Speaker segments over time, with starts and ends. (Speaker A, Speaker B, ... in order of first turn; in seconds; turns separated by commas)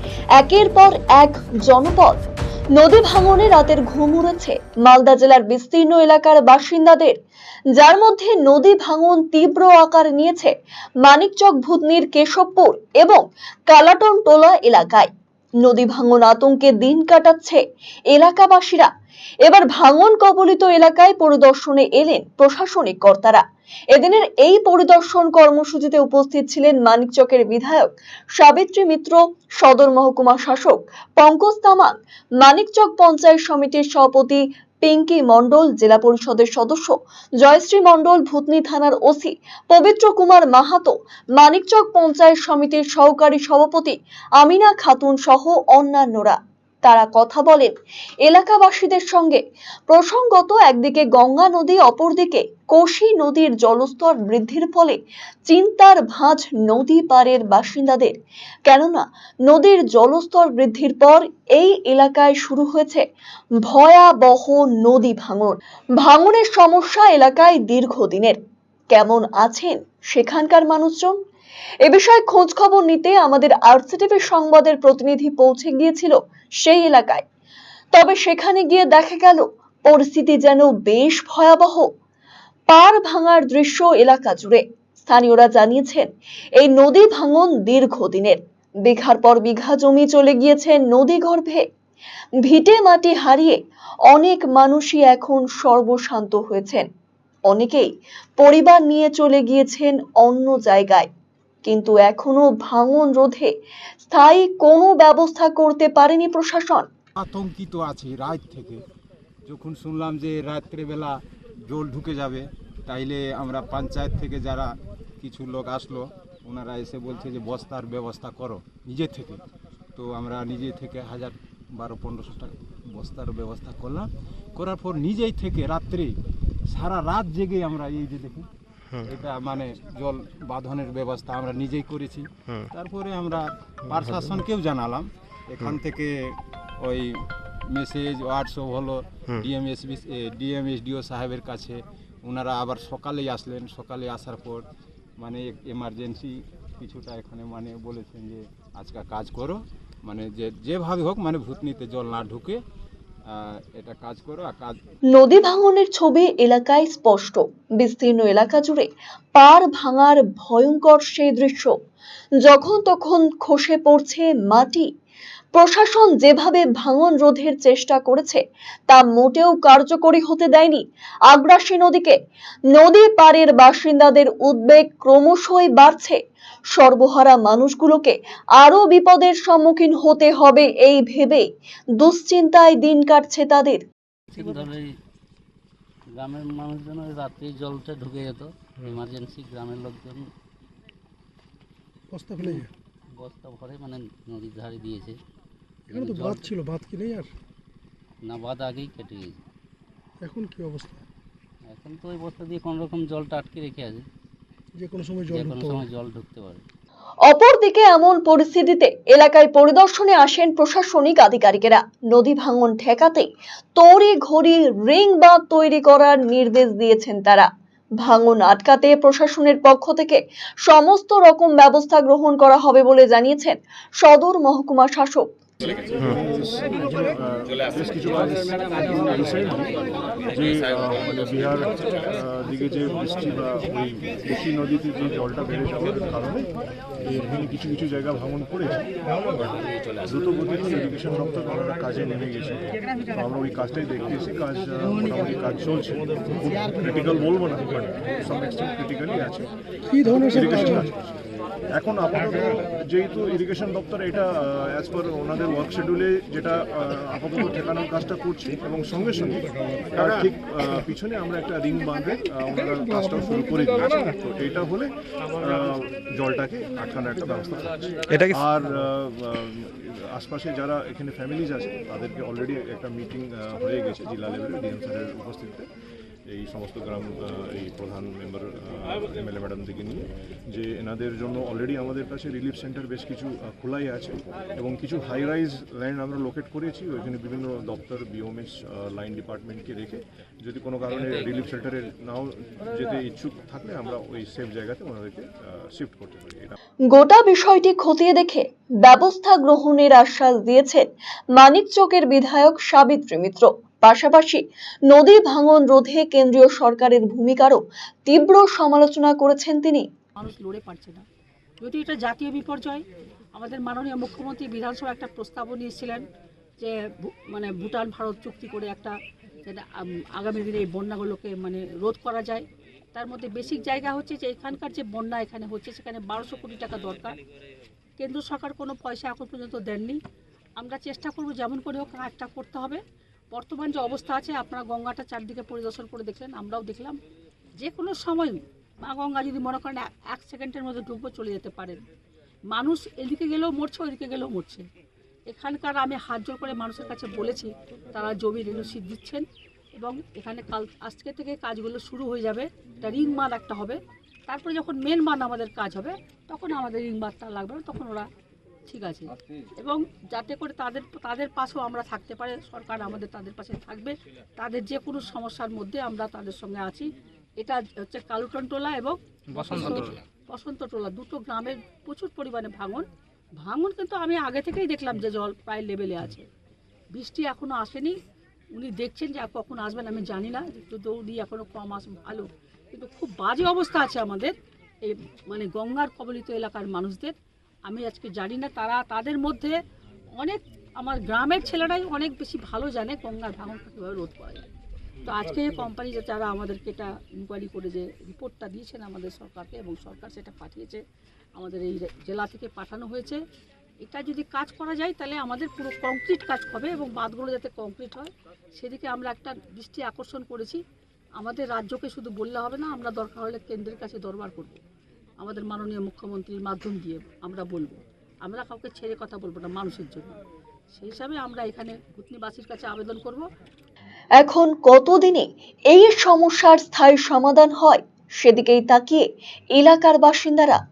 Speaker A: 0.4-7.2, Speaker A: 7.7-15.1, Speaker A: 15.6-18.9, Speaker A: 19.4-23.4, Speaker A: 23.9-47.7, Speaker A: 48.3-63.0, Speaker A: 63.6-68.4, Speaker A: 68.9-71.2, Speaker A: 71.8-77.2, Speaker A: 77.9-81.9, Speaker A: 82.7-91.7, Speaker A: 92.4-96.9, Speaker A: 97.5-101.1, Speaker A: 101.7-103.5, Speaker A: 104.1-106.9, Speaker B: 107.2-108.8, Speaker B: 109.5-119.4, Speaker B: 120.0-126.2, Speaker B: 126.7-128.5, Speaker B: 129.0-137.1, Speaker B: 137.7-144.7, Speaker B: 145.2-152.6, Speaker B: 153.3-154.8, Speaker A: 155.1-161.7, Speaker A: 162.4-164.9, Speaker A: 165.6-172.2, Speaker A: 172.7-176.2, Speaker A: 176.7-181.5, Speaker A: 182.0-183.8, Speaker C: 184.3-184.9, Speaker C: 186.1-190.3, Speaker D: 192.1-192.7, Speaker C: 192.4-195.2, Speaker C: 195.9-196.5, Speaker D: 196.5-197.3, Speaker C: 198.2-199.4, Speaker D: 200.2-201.0, Speaker C: 201.7-204.1, Speaker D: 204.8-205.6, Speaker C: 205.3-206.6, Speaker A: 207.3-217.5, Speaker A: 218.0-225.3, Speaker E: 225.6-236.5, Speaker E: 237.1-249.5, Speaker D: 249.9-250.7, Speaker E: 250.0-251.2, Speaker E: 251.8-275.7, Speaker E: 276.3-296.6, Speaker A: 296.9-309.9, Speaker F: 310.2-311.0, Speaker F: 311.6-312.8, Speaker F: 313.4-316.0, Speaker F: 316.6-327.2, Speaker F: 328.0-330.0, Speaker F: 330.6-332.8, Speaker F: 333.3-337.0, Speaker F: 337.6-341.8, Speaker F: 342.5-344.7, Speaker F: 345.3-358.1, Speaker F: 358.7-372.9, Speaker F: 373.4-376.3, Speaker F: 376.9-378.0, Speaker F: 378.5-387.1, Speaker F: 387.7-389.6, Speaker F: 390.2-394.5, Speaker F: 395.1-400.8, Speaker F: 401.4-403.2, Speaker F: 403.8-410.6, Speaker F: 411.2-414.6, Speaker F: 415.2-420.2, Speaker F: 420.7-423.3, Speaker A: 424.2-430.6